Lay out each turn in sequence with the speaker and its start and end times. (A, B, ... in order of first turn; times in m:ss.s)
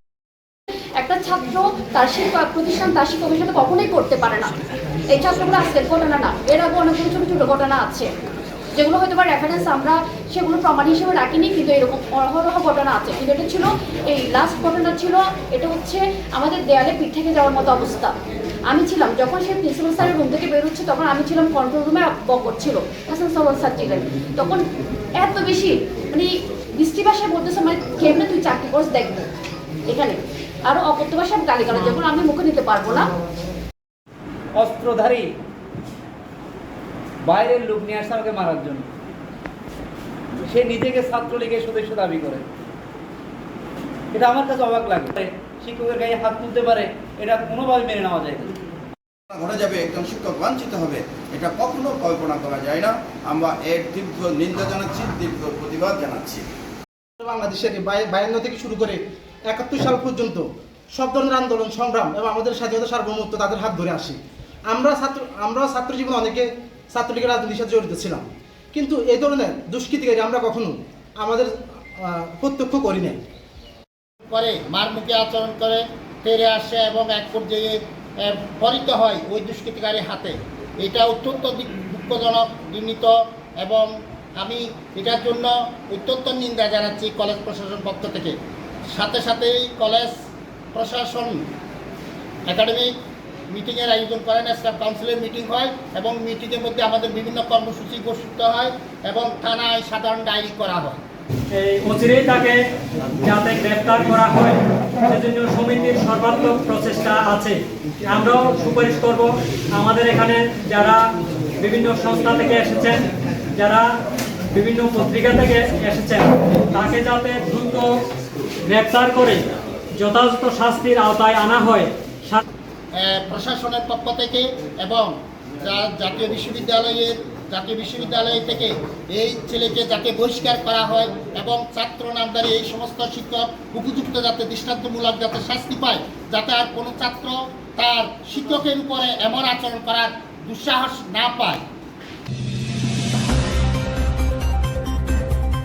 0:01.0-0:04.6 A
0:05.1-0:08.1 A
0:08.8-0:18.2 A
0:18.7-0:24.6 A
0:25.2-0:29.2 A
0:29.9-0:33.1 A
0:34.6-0:35.2 B
0:37.3-0:38.8 B
0:40.5-0:42.4 B
0:44.2-0:48.5 B
0:49.4-0:56.4 C
0:57.2-1:04.2 D
1:04.7-1:11.5 D
1:12.0-1:13.2 D
1:14.3-1:23.9 E
1:24.4-1:28.3 E
1:29.0-1:30.1 E
1:30.7-1:31.4 E
1:32.5-1:32.9 E
1:33.5-1:41.0 E
1:41.5-1:42.6 F
1:43.2-1:53.0 F
1:53.6-1:53.9 F
1:54.5-1:57.9 F
1:58.7-1:59.4 F
2:00.0-2:02.4 F
2:03.0-2:21.6 E